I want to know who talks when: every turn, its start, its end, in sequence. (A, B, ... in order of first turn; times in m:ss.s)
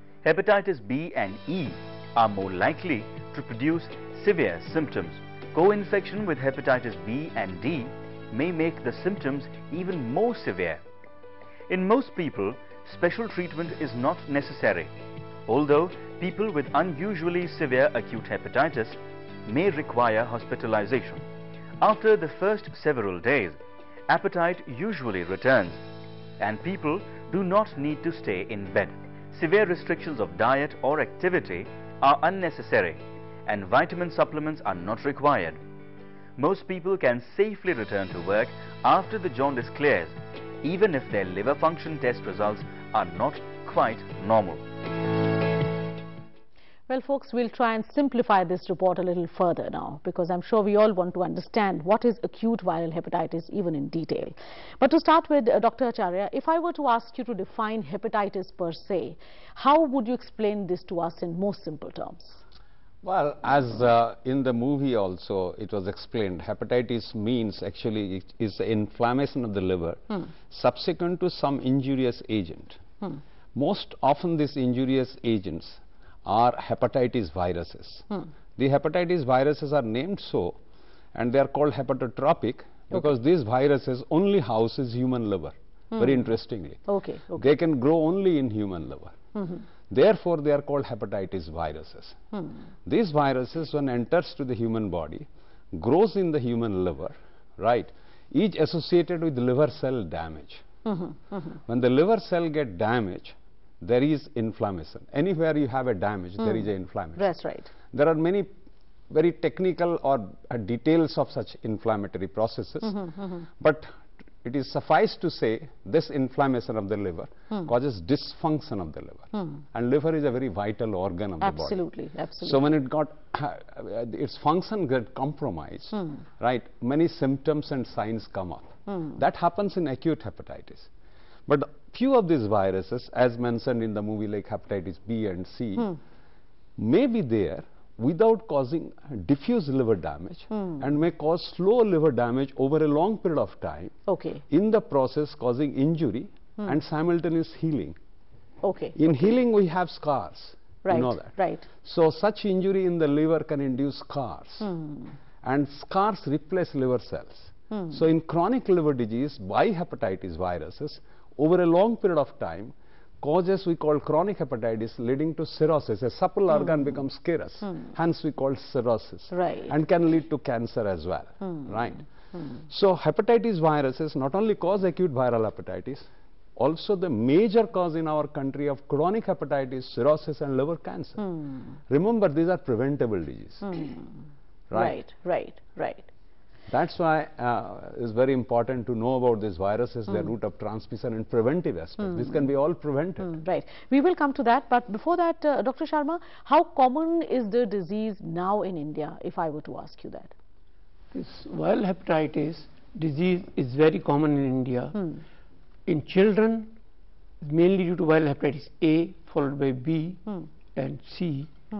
0:00.2-0:10.8 A
0:11.7-0:14.9 A
0:15.5-0:21.2 A
0:21.8-0:23.6 A
0:24.1-0:25.8 A
0:26.4-0:35.6 A
0:36.4-0:44.6 A
0:46.9-1:02.4 B
1:03.0-1:12.8 C
1:13.5-1:18.1 C
1:18.6-1:20.6 C
1:21.1-1:26.8 C
1:25.9-1:26.2 B
1:26.8-1:27.4 B
1:27.3-1:29.2 C
1:29.4-1:29.6 B
1:29.9-1:32.2 C
1:32.8-1:40.6 C
1:40.8-1:41.6 B
1:41.6-1:47.3 C
1:47.2-1:47.7 B
1:47.9-1:48.5 C
1:49.1-1:53.9 C
1:52.9-1:53.4 B
1:54.4-2:01.8 C
2:01.4-2:02.6 B
2:02.4-2:10.9 C
2:11.5-2:15.9 C
2:16.8-2:24.0 C
2:20.5-2:20.8 B
2:24.1-2:24.4 B
2:24.5-2:28.0 C
2:28.6-2:29.0 B
2:28.9-2:34.7 C
2:30.8-2:31.7 B
2:34.6-2:35.1 B
2:35.4-2:52.1 C
2:37.7-2:38.0 B
2:49.3-2:49.7 B
2:52.6-3:01.2 C
3:01.9-3:03.8 C
3:03.7-3:04.0 B
3:04.7-3:05.0 C
3:04.7-3:06.1 B
3:06.7-3:13.3 C
3:13.2-3:20.3 B
3:21.1-3:25.1 D
3:25.9-3:26.8 D
3:27.4-3:30.2 D
3:30.8-3:31.5 D